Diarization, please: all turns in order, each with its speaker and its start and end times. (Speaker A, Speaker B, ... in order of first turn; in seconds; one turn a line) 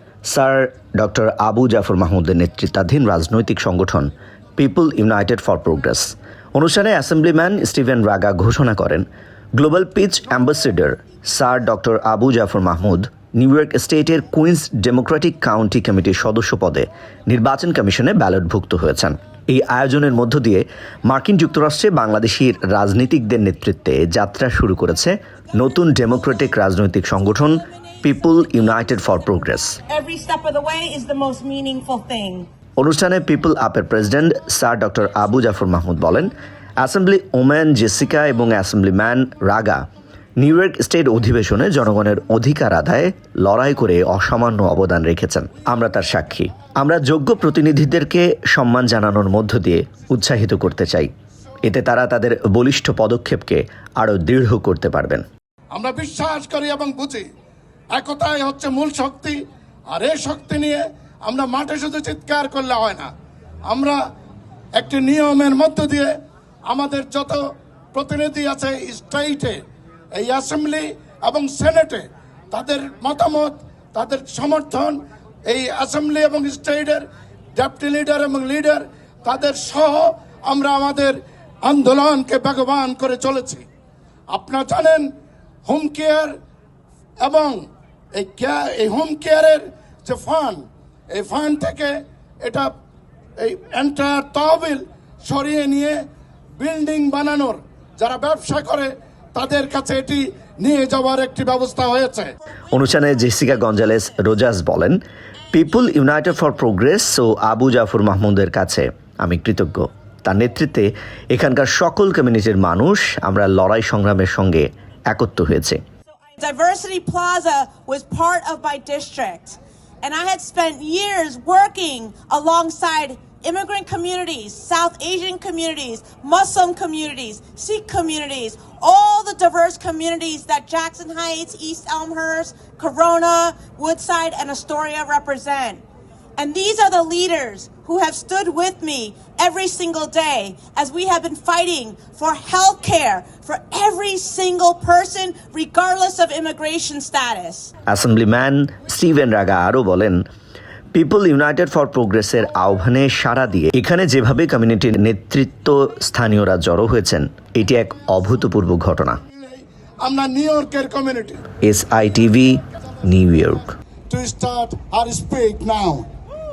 Speaker A: 0.2-29.8
Speaker B: 25.7-26.2
Speaker B: 27.2-32.5
Speaker A: 32.8-39.8
Speaker A: 40.4-51.1
Speaker A: 51.6-55.2
Speaker C: 55.7-57.3
Speaker C: 57.9-63.1
Speaker C: 63.7-64.0
Speaker C: 64.7-66.1
Speaker C: 66.7-69.6
Speaker C: 70.2-83.7
Speaker C: 84.3-85.1
Speaker C: 85.7-86.3
Speaker C: 87.2-92.7
Speaker C: 93.4-96.0
Speaker C: 96.6-102.3
Speaker A: 102.7-105.0
Speaker B: 102.7-104.2
Speaker A: 105.5-115.8
Speaker B: 116.3-135.8
Speaker B: 136.4-147.7
Speaker A: 147.9-150.2
Speaker A: 150.9-159.2
Speaker C: 159.3-161.4
Speaker A: 161.6-163.7
Speaker C: 164.1-166.1